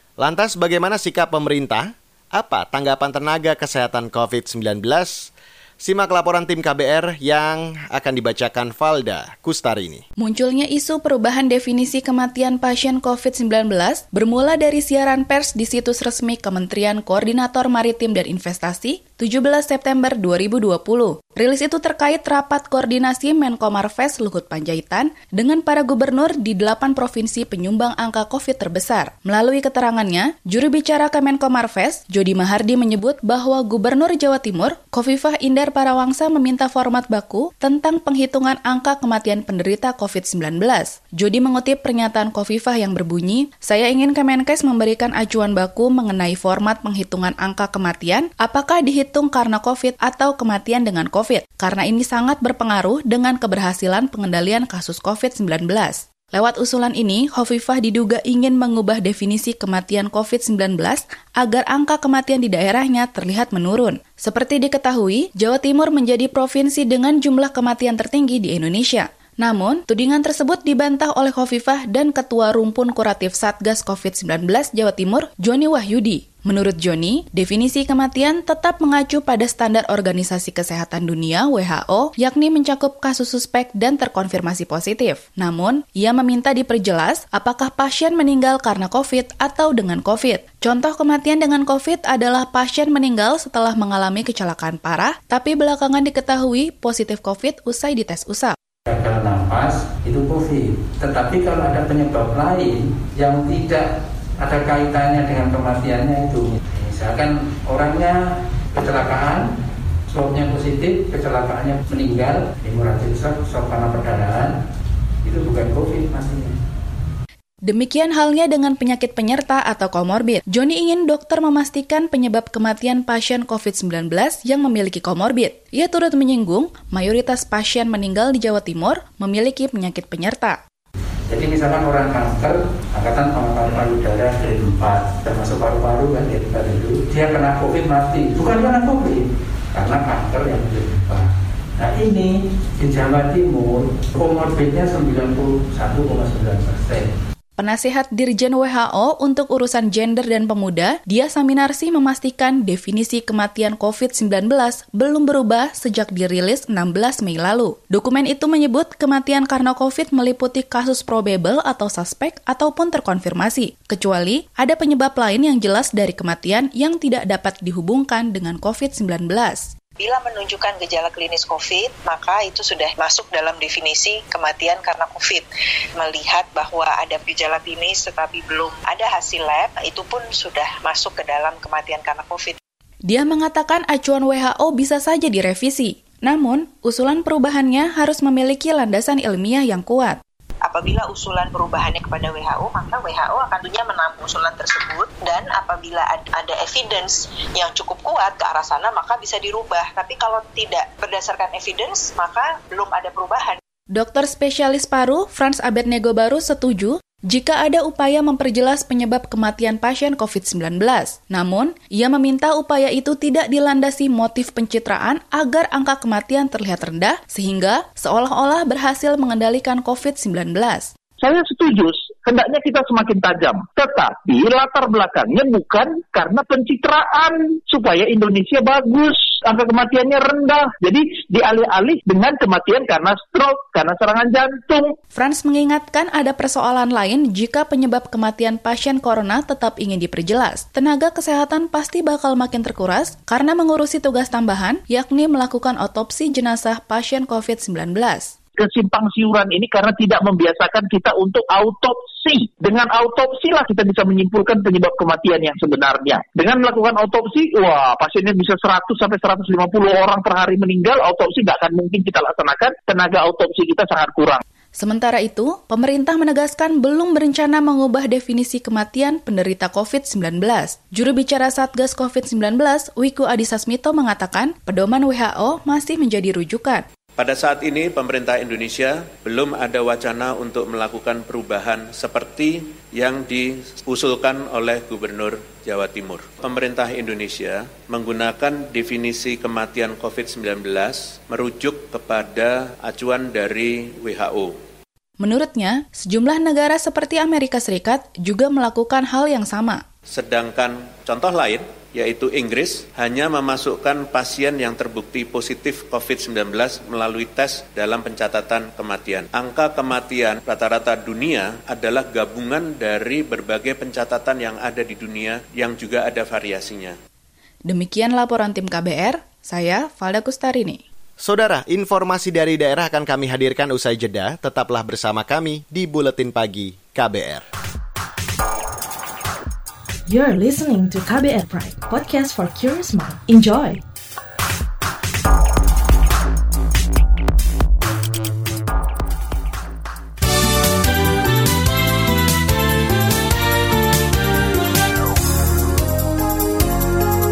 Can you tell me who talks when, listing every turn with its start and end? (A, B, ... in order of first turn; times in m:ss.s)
0:00.2-0:10.0 A
0:10.2-1:38.6 B
1:38.9-1:49.5 C
1:50.1-1:54.5 C
1:55.2-1:56.5 C
1:57.6-2:10.6 B
2:11.3-2:27.1 C
2:27.6-2:49.7 B
2:50.0-2:55.4 D
2:56.0-3:02.6 D
3:03.1-3:10.2 B
3:10.6-3:23.6 D
3:23.9-3:40.9 B
3:41.2-3:54.9 E
3:55.1-4:08.3 B
4:08.6-4:24.4 E
4:24.8-4:36.8 B
4:37.2-4:54.6 F
4:55.2-4:59.8 B
5:00.1-5:17.0 F
5:17.7-5:20.8 B
5:21.2-5:27.4 A
5:30.1-5:33.8 G